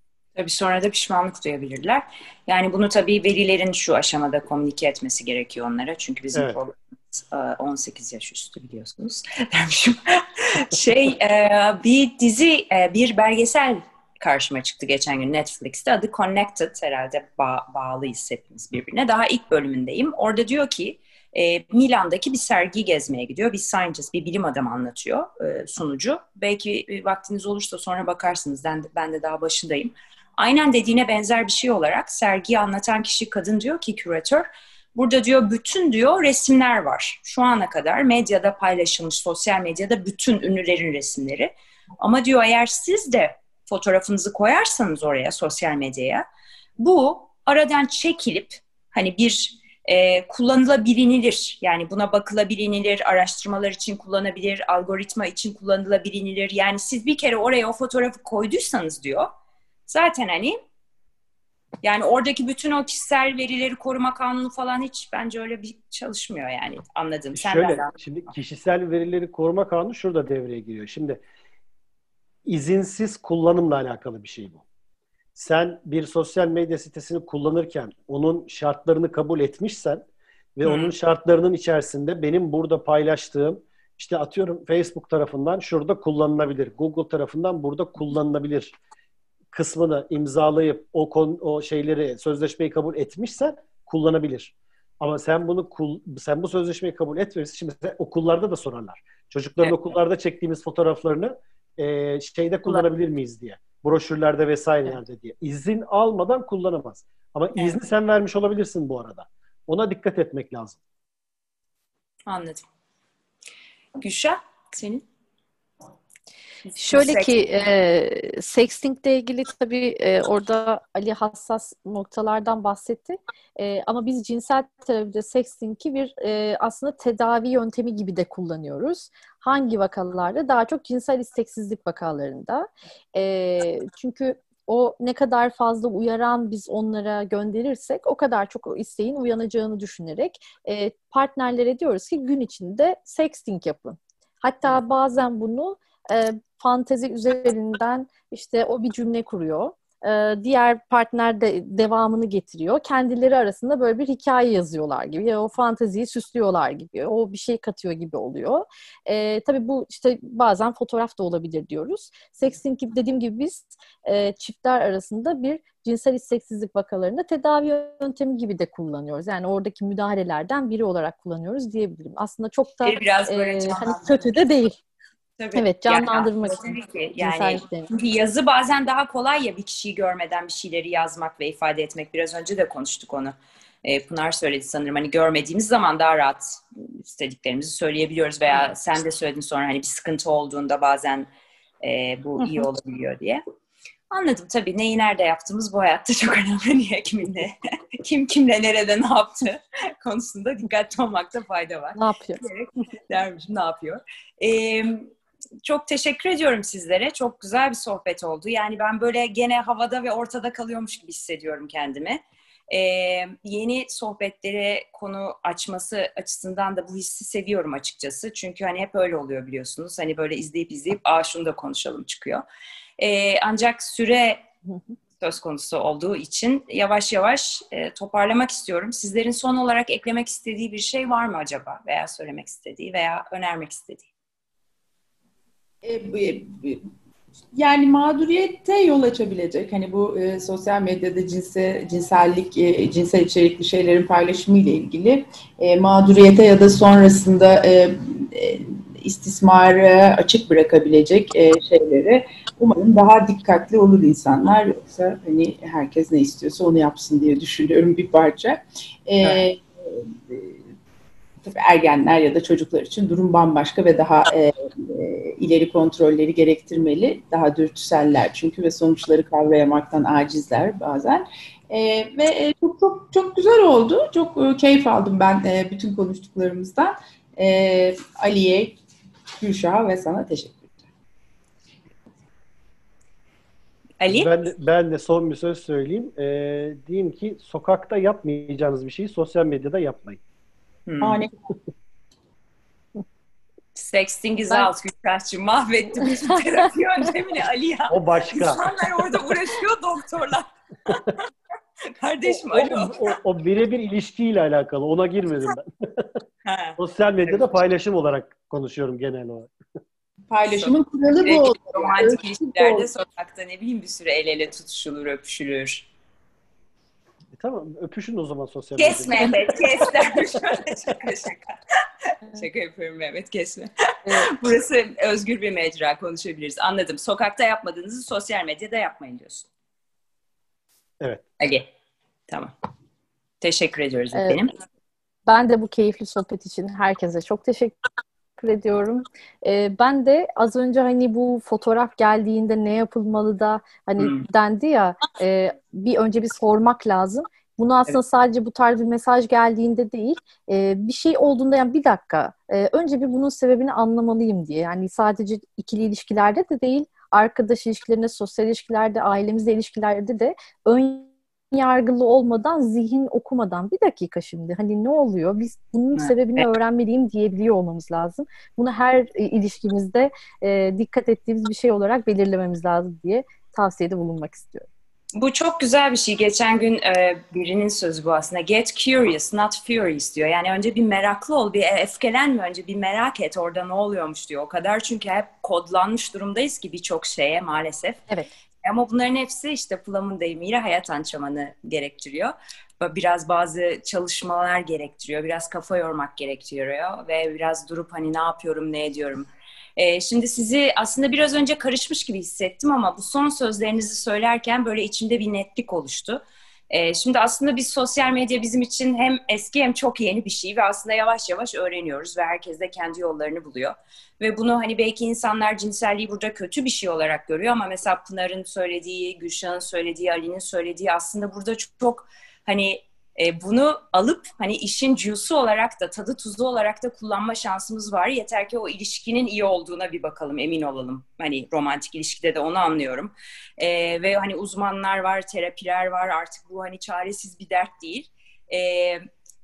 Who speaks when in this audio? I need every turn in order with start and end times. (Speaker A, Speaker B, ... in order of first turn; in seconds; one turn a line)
Speaker A: 0.4-46.2
Speaker B: 6.3-6.6
Speaker A: 46.8-59.3
Speaker A: 59.9-60.6
Speaker A: 61.8-67.9
Speaker B: 67.3-71.2
Speaker B: 72.5-74.6
Speaker B: 75.3-88.8
Speaker A: 80.7-80.9
Speaker B: 89.5-110.8
Speaker A: 112.3-112.7
Speaker A: 114.0-115.1
Speaker A: 116.7-117.4
Speaker C: 116.8-174.8
Speaker A: 172.8-174.3
Speaker A: 175.4-191.3
Speaker C: 175.6-177.9
Speaker A: 191.8-193.4
Speaker A: 194.1-205.1
Speaker C: 202.0-202.4
Speaker A: 205.6-222.4
Speaker A: 223.0-224.4
Speaker A: 225.2-234.1
Speaker D: 235.8-236.9
Speaker D: 237.5-260.6
Speaker D: 261.4-278.8
Speaker D: 279.4-280.8
Speaker A: 284.0-284.3
Speaker B: 284.1-290.2
Speaker A: 290.9-291.2
Speaker D: 291.0-291.3
Speaker A: 293.8-301.3
Speaker B: 297.9-298.6
Speaker A: 301.9-303.1
Speaker B: 302.5-306.1
Speaker A: 306.4-306.8
Speaker B: 306.8-309.5
Speaker D: 310.3-312.9
Speaker A: 310.5-315.9
Speaker B: 317.3-319.5
Speaker A: 318.8-321.6
Speaker A: 322.3-329.5
Speaker C: 324.1-324.3
Speaker A: 331.4-331.7
Speaker A: 333.4-334.5
Speaker C: 334.1-334.4
Speaker C: 335.3-337.8
Speaker C: 338.4-374.7
Speaker A: 344.0-344.3
Speaker A: 365.9-366.5
Speaker A: 375.1-388.0
Speaker A: 388.6-439.0